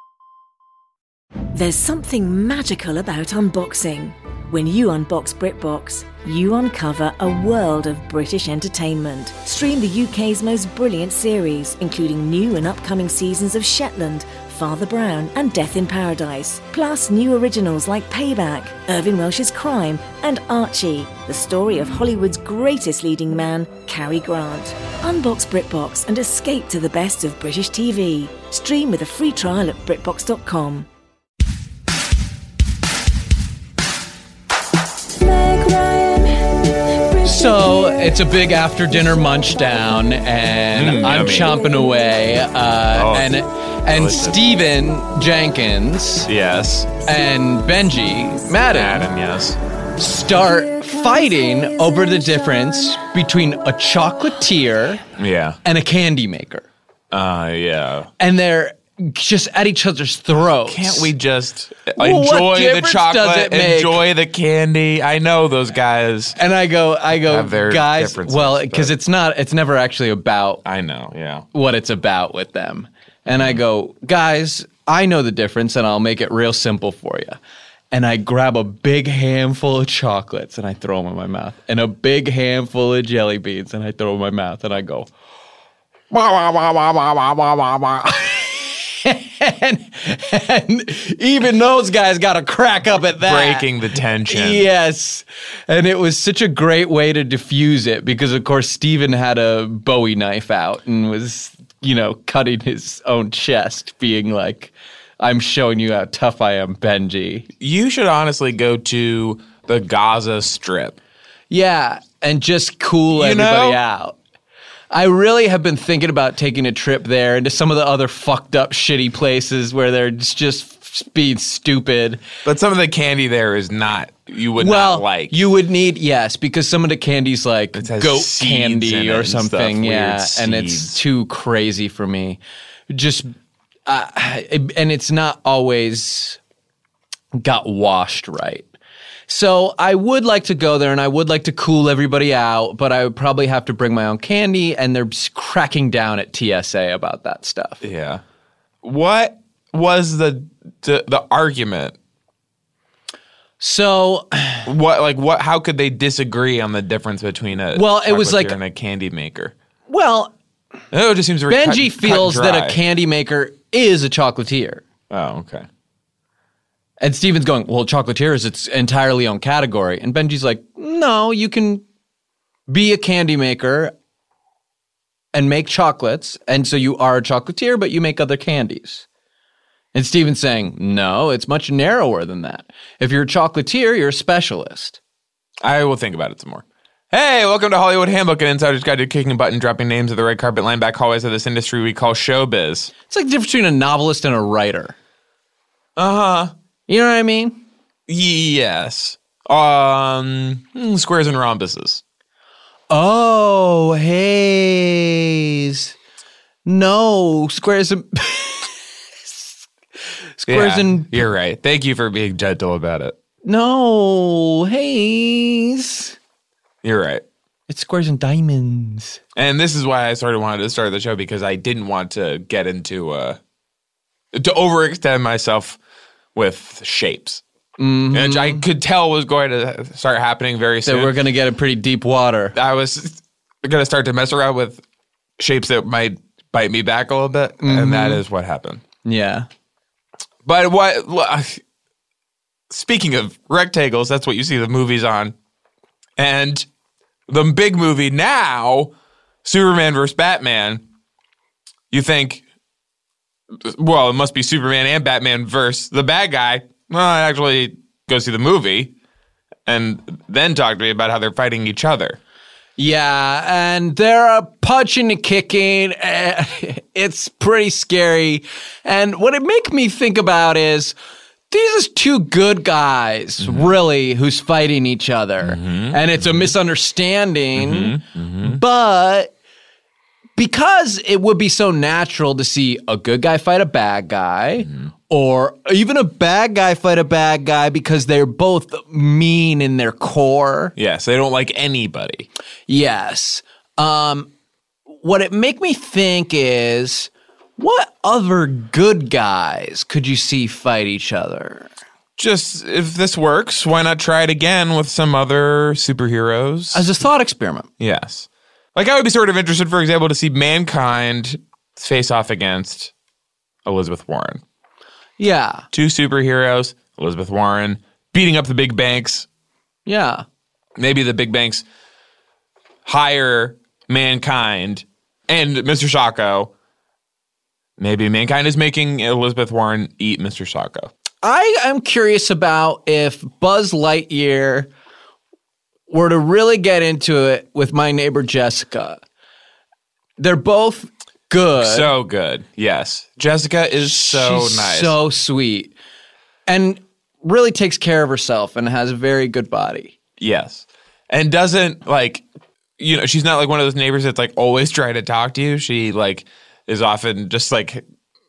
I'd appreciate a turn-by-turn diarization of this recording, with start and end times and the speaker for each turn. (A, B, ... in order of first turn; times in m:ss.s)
0:01.5-0:30.9 A
0:37.2-0:46.3 B
0:40.7-0:41.6 C
0:42.9-0:44.5 C
0:46.3-0:47.0 C
0:47.0-0:49.1 B
0:48.7-0:49.6 C
0:50.0-0:55.0 B
0:55.2-0:55.6 C
0:55.6-0:56.7 B
0:57.1-0:58.1 C
0:58.2-1:01.1 B
1:00.6-1:06.4 C
1:02.0-1:04.0 B
1:06.4-1:10.6 B
1:07.1-1:08.9 C
1:10.6-1:11.4 C
1:11.5-1:17.4 B
1:17.9-1:25.1 B
1:26.1-1:33.7 B
1:33.2-1:34.7 C
1:34.3-1:47.5 B
1:47.6-1:51.0 C
1:51.5-1:54.2 B
1:53.1-1:53.8 C
1:54.9-2:02.2 B
2:02.4-2:05.5 C
2:04.6-2:12.4 B
2:07.7-2:11.0 C
2:12.9-2:13.3 B
2:13.9-2:16.4 B
2:17.3-2:18.7 B
2:19.3-2:27.8 B
2:27.8-2:28.2 C
2:28.8-2:32.0 C
2:33.6-2:34.7 B
2:34.6-2:39.5 C
2:37.7-2:38.6 B
2:39.9-2:40.3 B
2:40.9-2:42.8 C
2:41.5-2:44.8 B
2:45.1-2:45.7 C
2:47.0-2:51.8 B
2:52.7-2:53.9 B
2:55.3-2:59.0 B
2:59.9-3:05.0 B
3:05.6-3:12.9 C
3:13.1-3:14.9 B
3:16.0-3:16.5 C
3:16.9-3:17.6 B
3:18.1-3:22.0 C
3:22.9-3:25.9 B
3:26.6-3:29.5 B
3:30.4-3:31.2 B
3:30.5-3:33.2 C
3:33.4-3:36.2 B
3:36.8-3:37.2 C
3:37.7-3:39.2 B
3:39.3-3:43.4 C
3:44.3-3:45.8 C
3:46.3-3:47.4 C
3:47.8-3:48.6 B
3:48.1-3:51.2 C
3:50.8-3:52.5 B
3:52.5-3:54.8 C
3:55.4-3:58.8 C
3:57.6-3:58.2 B
3:59.0-3:59.5 B
4:00.4-4:01.6 C
4:02.7-4:05.3 C
4:06.2-4:06.7 C
4:07.3-4:08.9 C
4:09.4-4:10.8 C
4:11.9-4:12.4 C
4:13.6-4:18.9 C
4:19.6-4:22.2 C
4:22.8-4:30.9 B
4:31.5-4:39.3 B
4:33.4-4:33.7 C
4:35.4-4:36.5 C
4:37.5-4:38.6 C
4:40.4-4:50.7 B
4:50.8-4:52.3 C
4:52.7-4:54.3 B
4:54.9-5:01.7 B
5:02.2-5:06.9 C
5:06.7-5:07.7 B
5:07.8-5:12.9 C
5:13.6-5:14.4 C
5:15.2-5:15.6 B
5:15.7-5:19.3 C
5:19.8-5:20.2 B
5:20.8-5:21.6 C
5:22.8-5:26.5 C
5:27.8-5:30.9 C
5:31.2-5:34.7 B
5:35.9-5:39.0 B
5:40.2-5:41.9 B
5:41.6-5:45.0 C
5:43.8-5:45.7 B
5:46.5-5:50.0 B
5:50.2-5:52.2 C
5:52.8-5:57.8 C